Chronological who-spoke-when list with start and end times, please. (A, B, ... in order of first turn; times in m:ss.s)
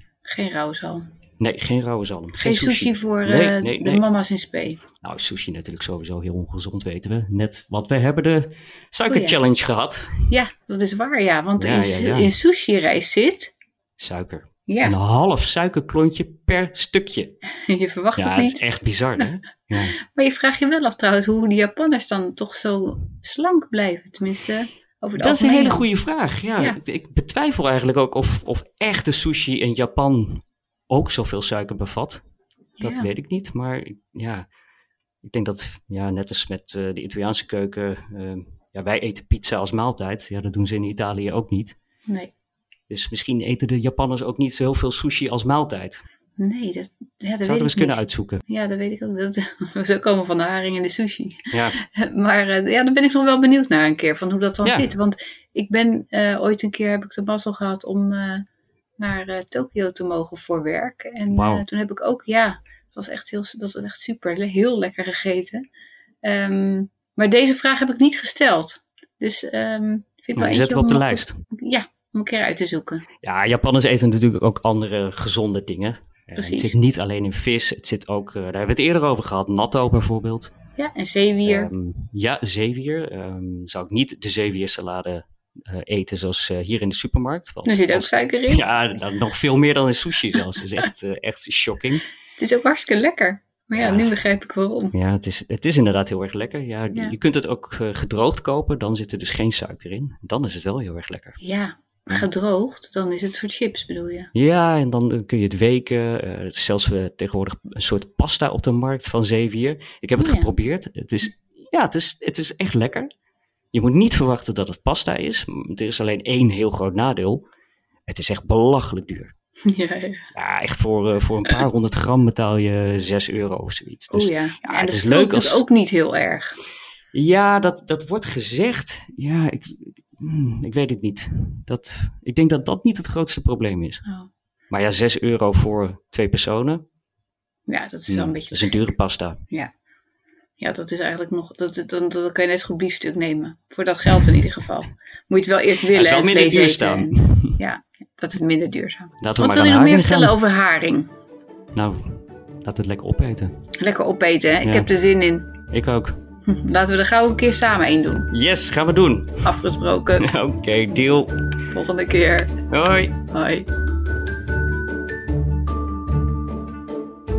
0:00.2-0:01.0 A
0:01.4-0:04.0 B
0:02.4-0:04.8 A
0:05.0-0:10.2 B
0:09.1-0:09.4 A
0:10.3-0:13.5 A
0:11.6-0:12.3 B
0:14.0-0:17.3 B
0:14.7-0:15.0 A
0:17.7-0:18.6 A
0:18.2-0:20.0 B
0:20.0-0:25.8 A
0:25.2-0:32.2 B
0:32.8-0:33.1 A
0:32.8-0:34.4 B
0:35.2-0:41.8 B
0:42.9-0:46.0 B
0:46.4-0:58.4 A
0:47.4-0:48.4 B
0:51.5-0:51.8 B
0:54.6-0:54.9 B
0:59.0-1:05.6 A
1:01.3-1:01.6 B
1:06.2-1:13.0 A
1:10.4-1:11.4 B
1:13.2-1:20.5 B
1:16.4-1:16.7 A
1:20.8-1:21.7 A
1:21.4-1:32.0 B
1:27.6-1:28.6 A
1:32.4-1:34.9 A
1:33.7-1:34.1 B
1:34.9-1:41.4 B
1:41.4-1:44.3 A
1:44.3-1:53.1 B
1:50.2-1:50.5 A
1:53.7-1:57.4 B
1:58.1-1:59.3 B
1:59.6-2:00.2 A
2:00.3-2:05.6 B
2:04.1-2:06.5 A
2:07.1-2:14.0 B
2:14.7-2:16.8 B
2:17.7-2:18.9 A
2:18.1-2:19.4 B
2:20.6-2:31.1 A
2:25.9-2:27.5 B
2:29.2-2:30.4 B
2:31.7-2:33.5 B
2:33.8-2:35.5 A
2:34.6-2:34.9 B
2:35.7-2:36.2 B
2:36.5-2:38.3 A
2:38.3-2:39.5 B
2:39.4-2:40.3 A
2:40.2-2:41.3 B
2:41.7-2:42.5 A
2:42.7-2:43.2 B
2:43.3-2:43.7 A